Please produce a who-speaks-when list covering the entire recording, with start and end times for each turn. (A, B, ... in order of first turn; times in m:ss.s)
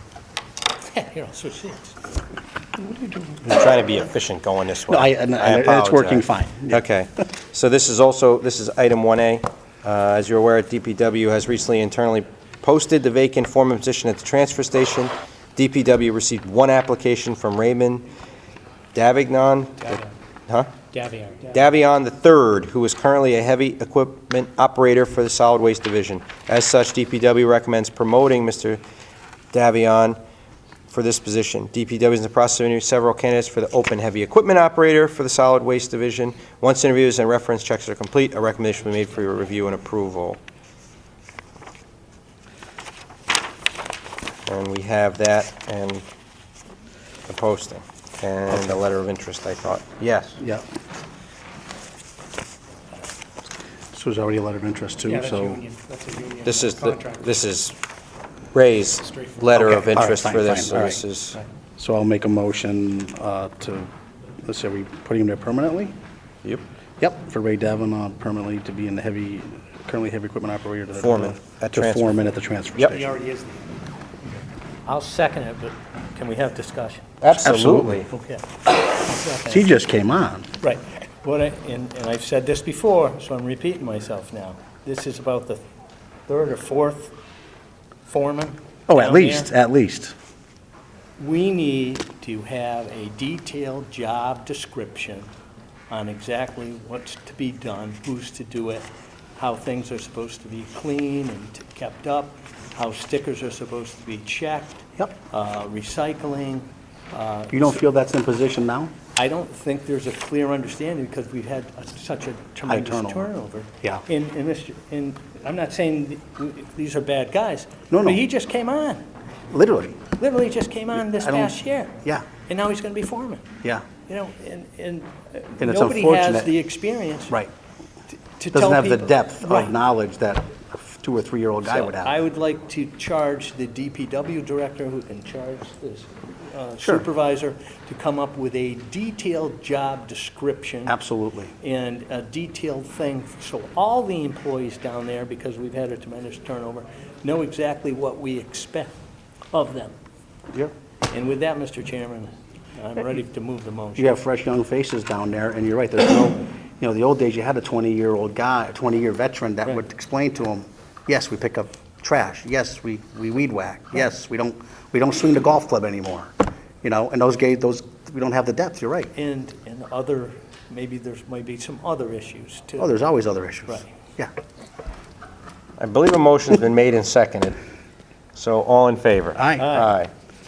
0:00.8-0:02.0 A
0:03.4-0:18.1 B
0:04.9-0:06.8 C
0:18.9-0:20.7 B
0:20.9-0:21.5 A
0:21.5-0:28.8 B
0:29.5-0:30.2 B
0:30.9-0:40.4 B
0:44.5-0:46.0 B
0:47.3-0:50.4 B
0:48.5-0:48.8 C
0:50.4-0:50.6 C
0:53.9-0:55.7 C
0:55.3-0:57.1 D
0:56.4-0:57.8 B
0:58.5-1:01.4 B
0:59.5-1:01.0 C
1:01.8-1:03.9 C
1:04.4-1:05.9 C
1:07.0-1:13.2 C
1:11.0-1:13.0 B
1:13.1-1:13.6 D
1:14.8-1:17.1 A
1:17.2-1:18.1 B
1:17.4-1:18.1 C
1:18.1-1:19.6 A
1:19.5-1:20.5 C
1:20.6-1:25.6 A
1:26.3-1:27.1 A
1:28.0-1:29.5 A
1:28.9-1:30.1 C
1:31.2-1:35.3 A
1:35.9-1:47.8 A
1:47.5-1:48.9 C
1:49.1-1:59.0 A
1:52.7-1:54.0 C
1:57.9-1:58.2 C
1:59.5-2:00.0 C
2:00.2-2:03.4 A
2:01.1-2:02.2 C
2:04.0-2:07.4 A
2:05.6-2:06.5 C
2:08.4-2:09.7 A
2:08.5-2:12.2 C
2:11.6-2:21.0 A
2:16.8-2:17.1 C
2:20.9-2:21.5 C
2:21.6-2:28.9 A
2:29.5-2:29.9 A
2:31.1-2:34.2 A
2:34.0-2:46.3 C
2:46.8-2:49.1 C
2:49.1-2:53.0 A
2:52.8-2:54.3 C
2:53.7-2:53.9 A
2:55.8-2:57.6 B
2:58.3-3:00.1 B
2:59.3-2:59.8 C
2:59.6-2:59.9 A